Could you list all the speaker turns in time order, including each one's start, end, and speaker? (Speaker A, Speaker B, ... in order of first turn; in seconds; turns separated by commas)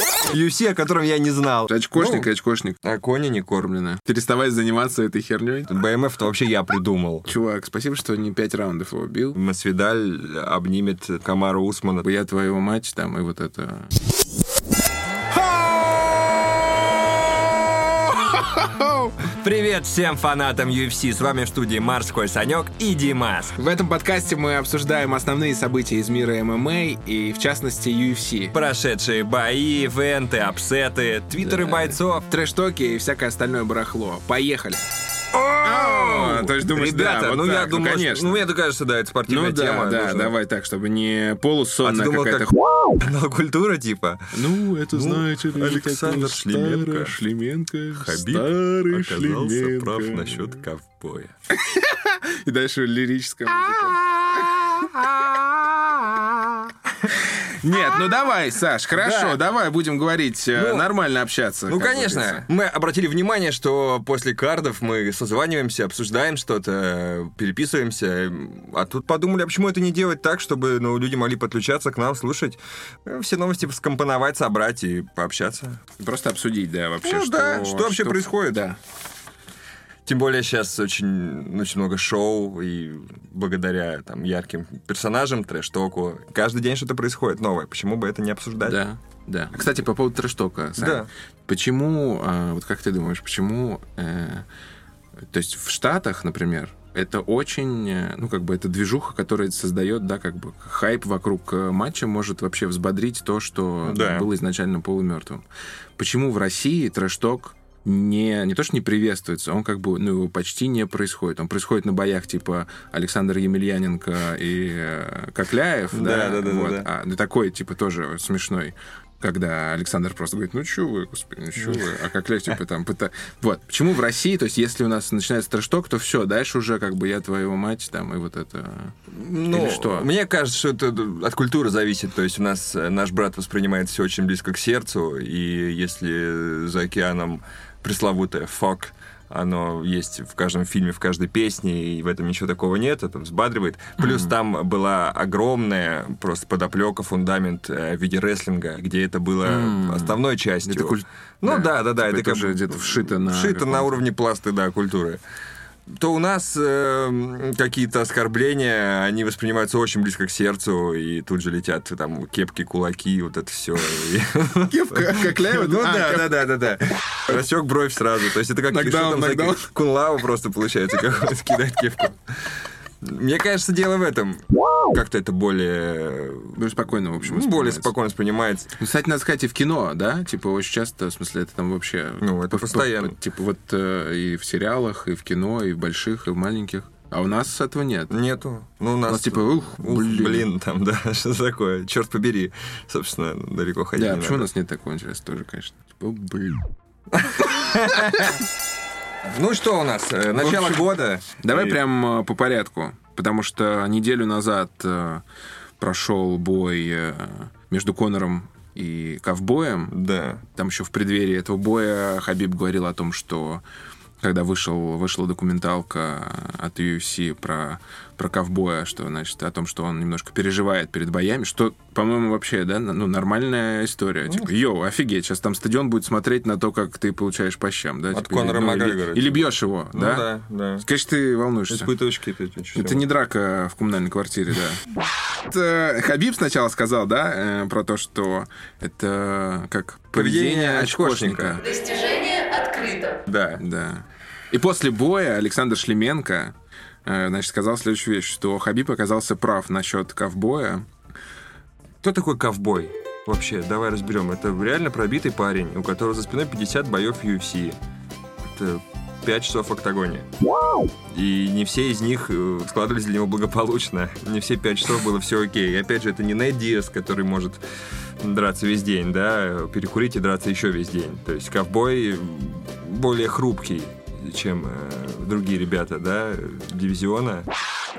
Speaker A: 0.3-2.3, Speaker B: 1.7-2.8, Speaker A: 2.8-3.7, Speaker B: 3.6-5.7, Speaker A: 5.7-7.3, Speaker B: 7.2-9.4, Speaker A: 9.3-12.1, Speaker B: 12.0-13.9, Speaker B: 15.3-19.2, Speaker A: 19.2-23.6, Speaker B: 23.6-28.5, Speaker A: 28.5-32.2, Speaker B: 31.4-34.9, Speaker A: 35.3-40.3, Speaker B: 35.6-38.4, Speaker B: 39.3-42.9, Speaker A: 41.8-47.1, Speaker B: 44.3-50.6, Speaker A: 48.0-51.3, Speaker B: 51.5-55.0, Speaker A: 54.7-57.1, Speaker B: 57.1-62.4, Speaker A: 59.0-59.4, Speaker A: 60.5-60.9, Speaker A: 61.7-75.8, Speaker B: 76.0-78.8, Speaker A: 77.0-78.7, Speaker A: 80.0-88.8, Speaker B: 88.6-94.5, Speaker A: 90.8-91.1, Speaker B: 95.3-105.4, Speaker A: 103.8-104.3, Speaker B: 106.0-128.9, Speaker A: 115.9-116.9, Speaker A: 121.6-121.9, Speaker A: 129.1-155.2, Speaker B: 129.5-130.1, Speaker B: 144.0-144.3, Speaker B: 149.4-154.0, Speaker A: 155.9-172.2, Speaker B: 164.7-166.5, Speaker B: 168.7-169.7, Speaker A: 173.0-176.6, Speaker B: 176.5-177.9, Speaker A: 177.2-178.7, Speaker B: 178.8-188.1, Speaker A: 182.2-183.1, Speaker A: 188.1-194.5, Speaker B: 189.1-190.5, Speaker B: 194.0-196.7, Speaker A: 197.1-198.4, Speaker B: 197.9-198.3, Speaker A: 199.2-201.8, Speaker B: 200.3-205.2, Speaker B: 205.8-213.6, Speaker A: 209.9-210.4, Speaker B: 214.2-230.3, Speaker A: 228.1-230.8, Speaker B: 230.8-231.9, Speaker A: 231.7-233.0, Speaker B: 232.7-234.8, Speaker B: 235.5-250.8, Speaker A: 240.1-241.8, Speaker A: 243.1-243.6, Speaker A: 252.0-257.8, Speaker A: 258.5-260.3, Speaker A: 261.1-267.6, Speaker A: 268.2-277.5